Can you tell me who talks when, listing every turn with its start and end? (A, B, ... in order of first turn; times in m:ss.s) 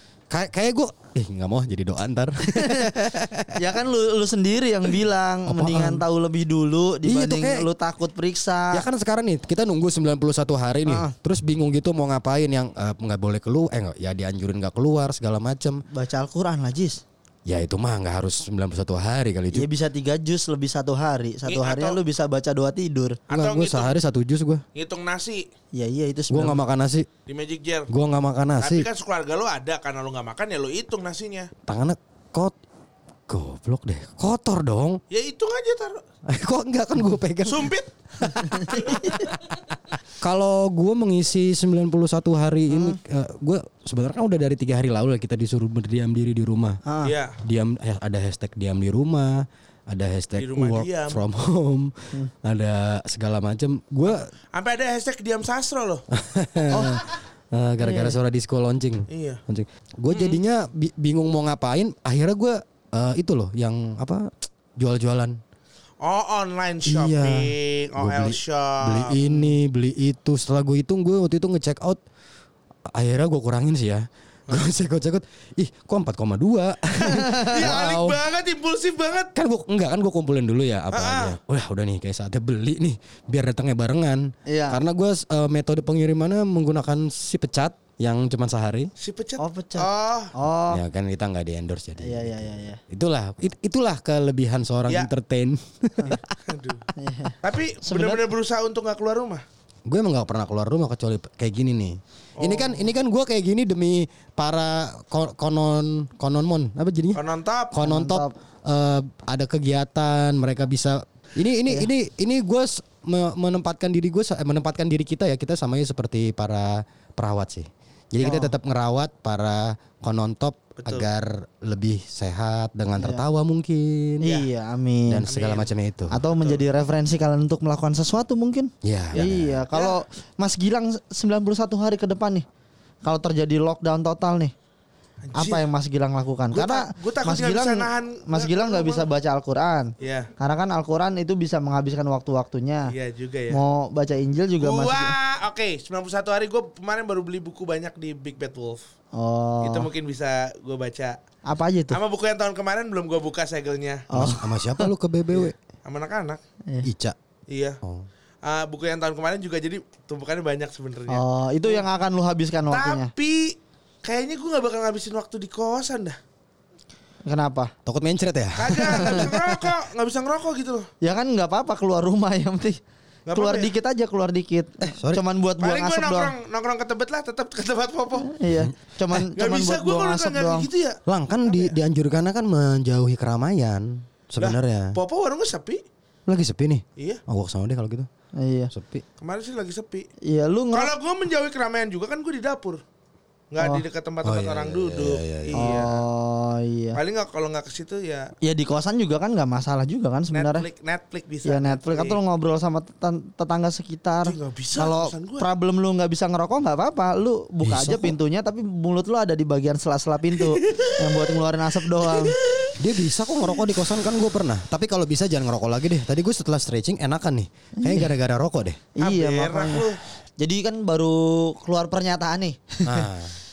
0:00.3-0:03.6 A
0:02.5-0:03.0 B
0:03.5-0:08.8 B
0:05.5-0:06.0 A
0:07.0-0:07.6 A
0:08.7-0:15.8 A
0:10.9-0:11.1 B
0:15.9-0:17.0 B
0:17.4-0:19.7 A
0:19.5-0:23.2 B
0:21.5-0:22.0 C
0:23.3-0:23.9 C
0:23.3-0:24.6 A
0:24.7-0:25.4 C
0:25.7-0:26.6 B
0:26.3-0:27.1 A
0:27.3-0:27.9 C
0:27.9-0:28.9 A
0:28.6-0:31.5 C
0:31.6-0:32.5 A
0:33.3-0:35.0 A
0:35.1-0:36.0 C
0:36.3-0:37.7 A
0:37.4-0:38.8 C
0:38.6-0:39.2 B
0:40.2-0:46.8 A
0:42.7-0:43.0 B
0:46.8-0:47.1 B
0:47.0-0:47.4 C
0:47.4-0:54.3 A
0:50.4-0:51.2 C
0:54.0-0:56.0 C
0:56.1-1:05.4 A
0:56.7-0:57.0 B
0:57.8-0:58.1 B
0:59.1-0:59.4 C
1:00.1-1:00.4 C
1:06.0-1:09.2 C
1:06.8-1:12.0 A
1:12.9-1:18.2 A
1:17.0-1:17.5 B
1:17.4-1:19.3 C
1:19.3-1:28.9 A
1:20.9-1:21.3 C
1:24.5-1:24.8 B
1:29.0-1:30.3 C
1:29.4-1:30.8 B
1:30.7-1:36.2 A
1:32.0-1:32.8 B
1:36.0-1:36.3 B
1:36.1-1:36.9 C
1:36.9-1:38.2 B
1:37.4-1:39.4 C
1:39.9-1:47.2 A
1:42.4-1:42.8 C
1:47.1-1:47.7 C
1:47.7-2:04.3 A
1:47.8-1:48.3 B
1:58.2-1:58.5 B
2:00.8-2:01.1 C
2:03.0-2:03.2 B
2:04.2-2:05.2 B
2:05.1-2:06.1 A
2:05.3-2:05.7 C
2:06.1-2:12.4 B
2:06.4-2:06.6 C
2:08.8-2:09.6 A
2:09.1-2:10.0 C
2:13.0-2:14.5 B
2:15.2-2:15.6 C
2:15.4-2:22.9 B
2:16.5-2:19.1 C
2:20.0-2:20.3 C
2:22.9-2:23.6 C
2:23.5-2:25.1 B
2:24.6-2:28.8 C
2:29.1-2:29.9 B
2:29.6-2:31.2 C
2:31.4-2:32.0 B
2:31.9-2:34.1 C
2:34.1-2:34.9 B
2:34.1-2:35.5 A
2:35.4-2:36.4 C
2:36.8-2:37.2 A
2:37.5-2:37.8 C
2:38.4-2:41.8 C
2:41.1-2:43.1 B
2:42.7-2:46.2 C
2:47.2-2:47.7 B
2:47.8-2:49.7 A
2:48.6-2:50.9 C
2:49.0-2:49.3 B
2:51.0-2:52.8 B
2:53.3-2:53.7 C
2:53.3-2:56.3 B
2:55.6-2:58.3 C
2:58.3-3:00.7 B
2:59.3-3:01.7 C
3:01.1-3:05.0 A
3:04.4-3:05.8 C
3:06.3-3:08.1 A
3:08.4-3:08.7 B
3:08.7-3:09.0 A
3:09.2-3:10.1 C
3:10.2-3:10.9 B
3:10.7-3:12.8 C
3:13.5-3:16.0 C
3:14.2-3:15.9 A
3:15.5-3:17.0 B
3:17.0-3:18.3 C
3:18.4-3:20.6 B
3:20.3-3:22.2 C
3:21.4-3:32.4 B
3:24.2-3:25.4 C
3:27.6-3:28.2 A
3:30.4-3:31.3 C
3:32.0-3:32.8 C
3:32.8-3:38.8 A
3:37.8-3:38.1 B
3:39.0-3:39.9 B
3:39.0-3:40.0 C
3:40.4-3:43.1 B
3:42.8-3:43.3 A